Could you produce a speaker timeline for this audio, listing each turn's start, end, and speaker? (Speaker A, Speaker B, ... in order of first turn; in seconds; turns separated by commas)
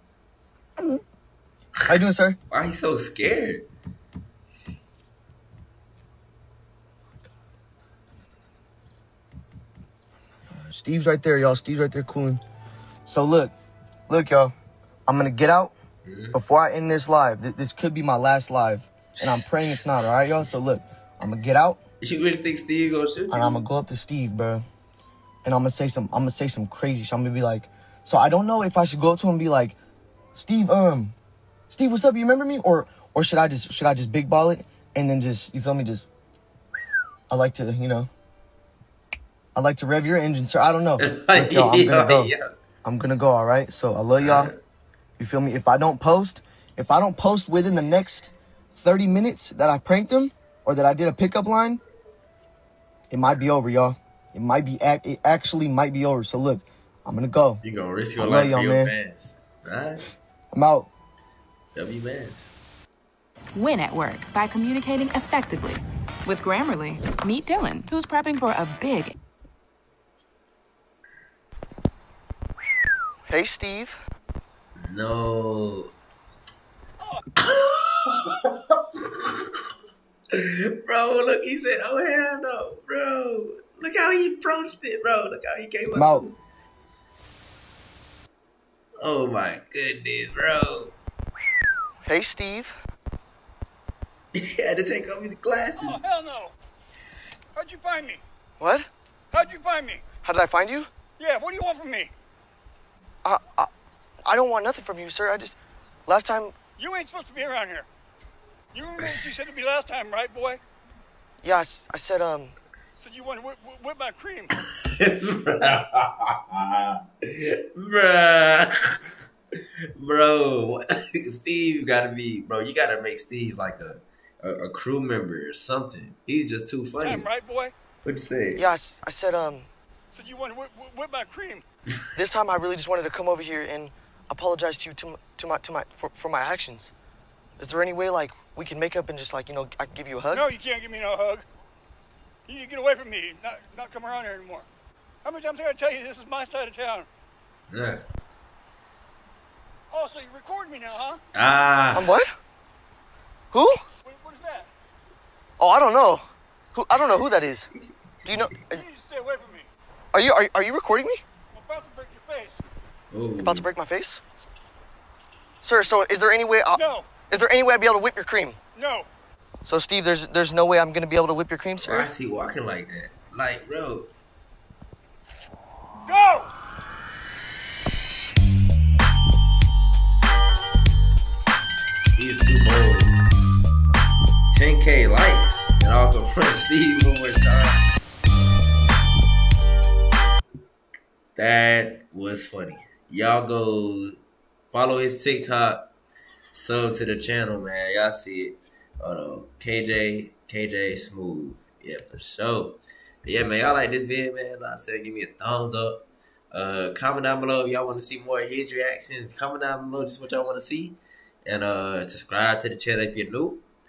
Speaker A: 1.9-2.4, Speaker B: 2.5-3.6, Speaker A: 10.6-12.4, Speaker A: 13.1-13.5, Speaker A: 14.1-14.5, Speaker A: 15.1-15.7, Speaker B: 16.0-16.4, Speaker A: 16.3-21.8, Speaker B: 19.2-20.5, Speaker B: 22.0-23.6, Speaker A: 23.3-24.6, Speaker A: 25.4-29.8, Speaker A: 30.4-31.1, Speaker A: 31.7-36.1, Speaker A: 37.3-38.1, Speaker A: 39.5-42.3, Speaker B: 41.0-42.5, Speaker A: 42.8-44.5, Speaker B: 44.2-44.5, Speaker A: 45.2-51.8, Speaker A: 53.1-57.6, Speaker B: 57.6-60.1, Speaker A: 58.2-58.9, Speaker A: 60.5-60.9, Speaker B: 61.7-62.5, Speaker C: 63.5-69.1, Speaker A: 73.3-74.0, Speaker B: 74.8-75.9, Speaker B: 77.4-79.3, Speaker B: 80.3-86.3, Speaker A: 85.9-86.2, Speaker B: 89.0-90.9, Speaker A: 92.0-92.7, Speaker B: 94.3-96.0, Speaker D: 95.8-96.5, Speaker D: 97.5-98.2, Speaker A: 98.6-98.9, Speaker D: 99.3-100.0, Speaker A: 100.2-100.9, Speaker D: 101.2-102.1, Speaker A: 103.2-103.7, Speaker A: 104.2-106.5, Speaker D: 106.8-107.9, Speaker D: 108.7-110.6, Speaker A: 111.4-112.5, Speaker D: 113.0-114.5, Speaker B: 114.5-119.0, Speaker B: 120.0-127.3, Speaker D: 127.0-127.7, Speaker B: 128.0-128.6, Speaker A: 128.6-129.7, Speaker D: 130.1-131.6, Speaker A: 132.2-136.9, Speaker A: 137.6-140.4, Speaker D: 140.3-141.4, Speaker D: 142.5-144.7, Speaker D: 145.2-147.1, Speaker B: 147.7-148.0, Speaker D: 149.9-151.2, Speaker B: 151.3-152.1, Speaker A: 151.9-152.3, Speaker A: 153.5-153.8, Speaker D: 154.0-154.7, Speaker A: 155.6-156.2, Speaker A: 156.7-157.7, Speaker A: 158.2-158.8, Speaker D: 158.7-159.7, Speaker A: 160.1-161.2, Speaker D: 161.5-162.6, Speaker B: 163.1-163.7, Speaker A: 163.4-164.2, Speaker A: 165.6-168.6, Speaker D: 166.7-167.1, Speaker D: 168.7-169.1, Speaker A: 169.6-172.1, Speaker B: 171.8-174.1, Speaker D: 176.1-176.5, Speaker B: 182.2-183.1, Speaker B: 184.5-187.8, Speaker B: 191.3-194.2, Speaker B: 194.7-195.9, Speaker B: 196.5-213.6